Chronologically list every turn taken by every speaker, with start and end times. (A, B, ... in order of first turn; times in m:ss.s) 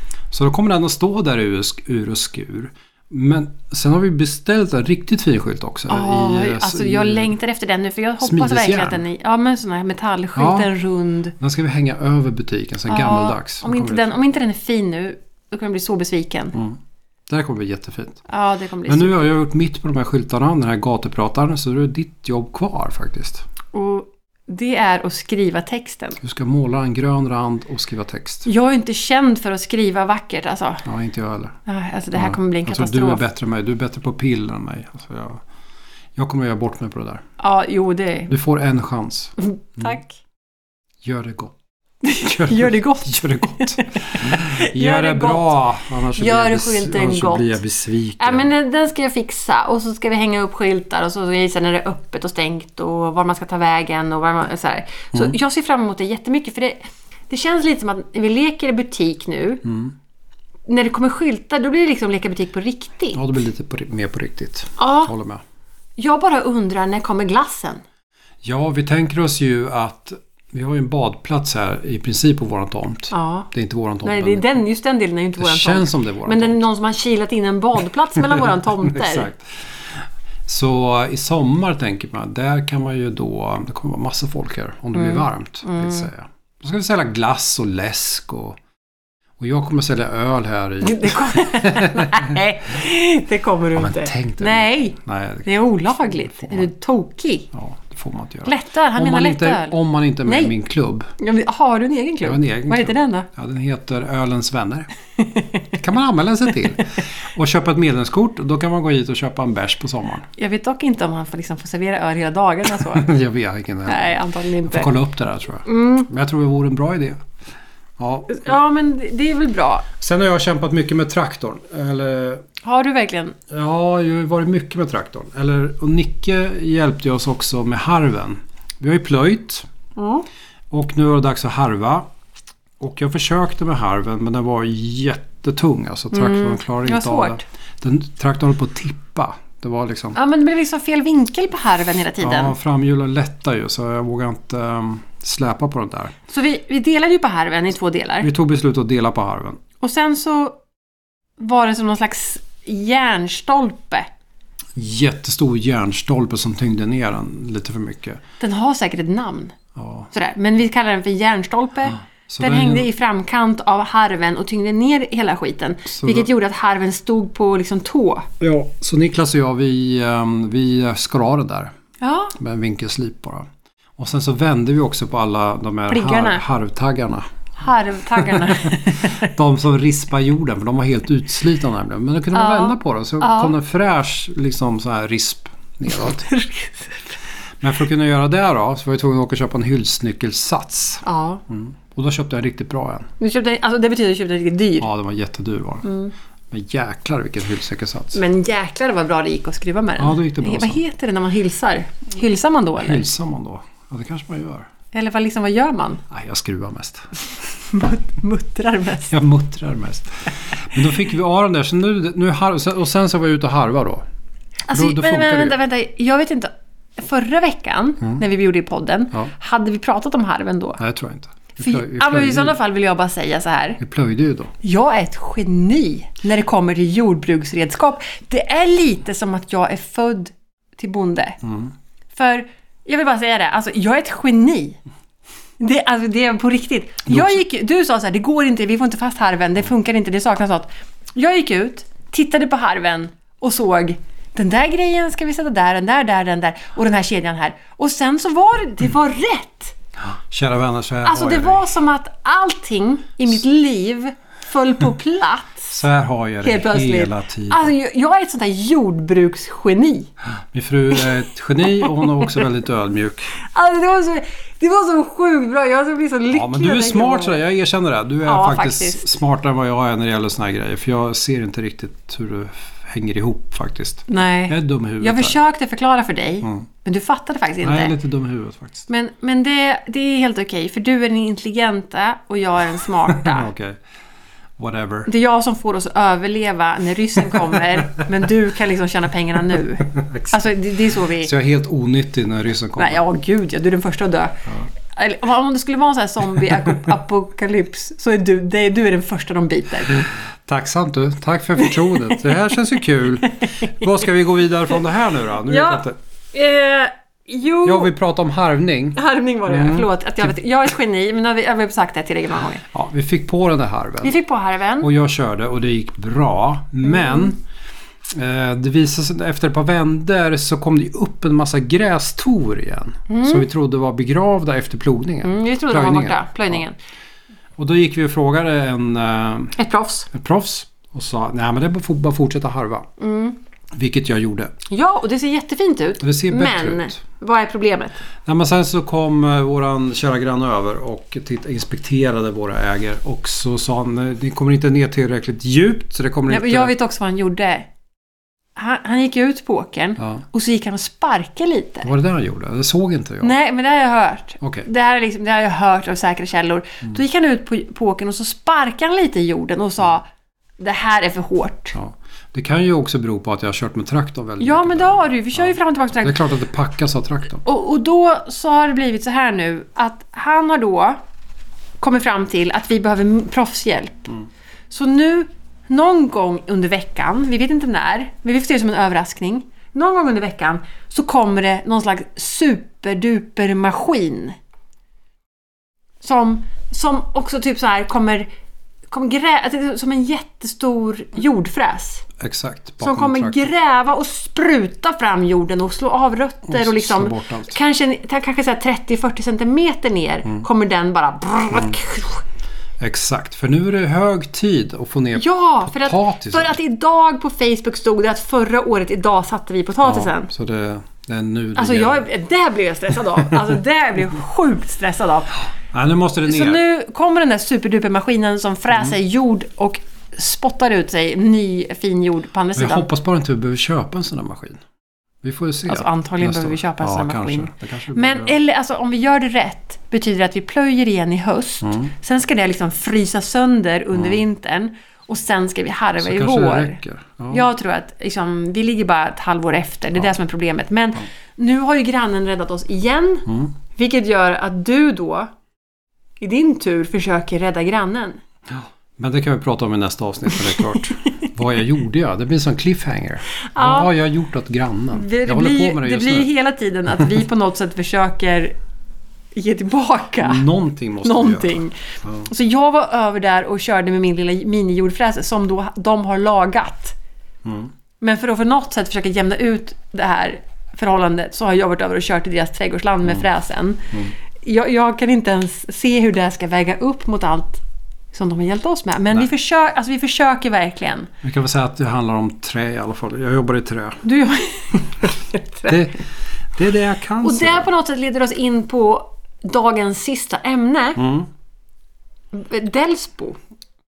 0:00.3-0:07.3 A
0:05.9-0:11.4 B
0:08.2-0:09.0 A
0:10.4-0:10.7 A
0:11.4-0:14.2 A
0:12.9-0:16.6 B
0:16.5-0:18.2 A
0:18.3-0:19.2 B
0:18.9-0:23.4 A
0:23.7-0:26.2 B
0:26.2-0:28.5 A
0:28.4-0:30.8 B
0:30.8-0:31.6 A
0:31.7-0:33.2 B
0:32.1-0:35.4 A
0:36.2-0:37.2 A
0:37.4-0:38.3 B
0:38.3-0:40.0 A
0:39.4-0:40.2 B
0:41.0-0:41.6 A
0:42.0-0:45.5 B
0:42.2-0:48.5 A
0:46.1-0:47.6 B
0:48.2-0:56.8 B
0:57.3-0:59.6 B
0:59.6-1:00.0 A
1:00.7-1:03.2 B
1:03.1-1:05.4 A
1:04.8-1:05.1 B
1:06.0-1:07.8 B
1:08.4-1:14.6 A
1:13.1-1:13.5 B
1:14.0-1:19.3 B
1:15.4-1:16.6 A
1:18.3-1:28.6 A
1:25.0-1:26.1 B
1:29.4-1:32.4 A
1:30.8-1:37.5 B
1:33.7-1:35.5 A
1:36.0-1:36.7 A
1:37.5-1:41.1 A
1:38.4-1:40.5 B
1:41.2-1:43.3 B
1:42.2-1:44.9 A
1:45.2-1:45.7 B
1:45.8-1:50.3 A
1:50.4-1:53.1 B
1:52.8-1:57.2 A
1:53.9-1:54.9 B
1:55.7-1:56.1 B
1:58.0-1:58.6 A
1:58.3-1:59.9 B
2:00.0-2:02.4 A
2:02.6-2:03.4 B
2:03.5-2:09.7 A
2:10.0-2:10.2 B
2:10.7-2:12.1 A
2:12.8-2:20.2 A
2:16.1-2:17.4 B
2:20.2-2:22.6 B
2:22.2-2:26.2 A
2:26.3-2:28.3 B
2:28.2-2:29.6 A
2:29.8-2:30.6 B
2:31.4-2:34.1 B
2:34.8-2:38.2 A
2:38.4-2:39.6 B
2:39.8-2:40.1 A
2:40.1-2:48.3 B
2:42.3-2:42.9 A
2:46.0-2:46.3 A
2:48.4-2:51.7 A
2:52.0-2:52.4 B
2:52.4-2:53.5 A
2:54.0-2:57.3 A
2:55.9-2:56.4 B
2:57.6-2:59.3 B
2:58.2-3:06.3 A
3:02.3-3:03.5 B
3:05.9-3:07.2 B
3:07.6-3:13.1 A
3:11.0-3:11.4 B
3:13.2-3:14.9 B
3:14.8-3:15.9 A
3:15.8-3:16.1 B
3:16.5-3:18.2 A
3:18.1-3:23.1 B
3:20.0-3:20.8 A
3:22.8-3:24.7 A
3:24.9-3:26.0 B
3:26.1-3:27.1 A
3:27.7-3:29.1 B
3:29.1-3:34.0 A
3:34.7-3:40.8 B
3:34.7-3:35.6 A
3:40.8-3:42.6 A
3:41.6-3:43.8 B
3:43.8-3:44.5 A
3:44.6-3:51.4 B
3:51.4-3:51.7 A
3:52.2-3:54.8 B
3:55.6-4:09.8 B
3:57.1-3:57.4 A
4:10.3-4:11.6 A
4:11.0-4:15.7 B
4:15.7-4:17.7 A
4:16.4-4:20.1 B
4:20.5-4:23.3 A
4:21.8-4:22.3 B
4:23.4-4:27.4 B
4:26.3-4:35.4 A
4:28.3-4:29.1 B
4:34.1-4:37.9 B
4:37.6-4:38.9 A
4:38.9-4:43.5 B
4:43.1-4:43.8 A
4:44.6-4:45.1 A
4:45.1-4:51.3 B
4:49.9-4:50.5 A
4:51.2-4:53.0 A
4:52.8-5:00.1 B
5:00.5-5:06.0 A
5:01.6-5:02.2 B
5:03.3-5:03.9 B
5:05.5-5:07.9 B
5:07.6-5:10.3 A
5:09.0-5:12.6 B
5:12.7-5:14.2 A
5:14.0-5:14.9 B
5:14.8-5:17.4 A
5:16.9-5:17.3 B
5:18.0-5:26.6 A
5:23.1-5:23.5 B
5:25.2-5:26.8 B
5:27.6-5:29.6 A
5:29.6-5:30.1 B
5:30.1-5:32.9 A
5:33.0-5:33.4 B
5:33.7-5:34.5 A
5:34.7-5:38.0 B
5:36.0-5:37.0 A
5:38.3-5:46.7 A
5:46.3-5:47.7 B
5:48.6-5:51.9 B
5:51.8-5:53.3 A
5:53.2-6:00.1 B
5:54.4-5:54.7 A
6:00.6-6:01.8 B
6:01.7-6:07.4 A
6:04.4-6:06.2 B
6:07.4-6:11.0 B
6:11.8-6:14.2 B
6:14.7-6:24.4 B
6:26.0-6:28.3 B
6:28.9-6:32.1 B
6:32.2-6:33.5 A
6:32.8-6:42.2 B
6:36.5-6:37.6 A
6:42.8-6:46.6 A
6:45.2-6:50.3 B
6:49.8-6:52.1 A
6:51.6-6:55.4 B
6:55.7-6:56.6 A
6:56.2-7:02.9 B
7:02.6-7:04.6 A
7:05.2-7:08.3 A
7:05.7-7:16.8 B
7:11.6-7:11.9 A
7:13.9-7:14.2 A
7:16.0-7:17.5 A
7:17.3-7:25.3 B
7:26.2-7:28.2 B
7:28.5-7:36.3 A
7:33.5-7:33.9 B
7:34.9-7:38.5 B
7:39.4-7:40.5 B
7:40.2-7:42.3 A
7:41.0-7:47.0 B
7:47.4-7:47.7 A
7:48.0-8:01.1 B
8:01.2-8:04.0 A
8:04.0-8:05.9 B
8:05.7-8:06.0 A
8:06.6-8:07.7 A
8:07.2-8:11.0 B
8:11.0-8:11.3 A
8:12.3-8:13.4 B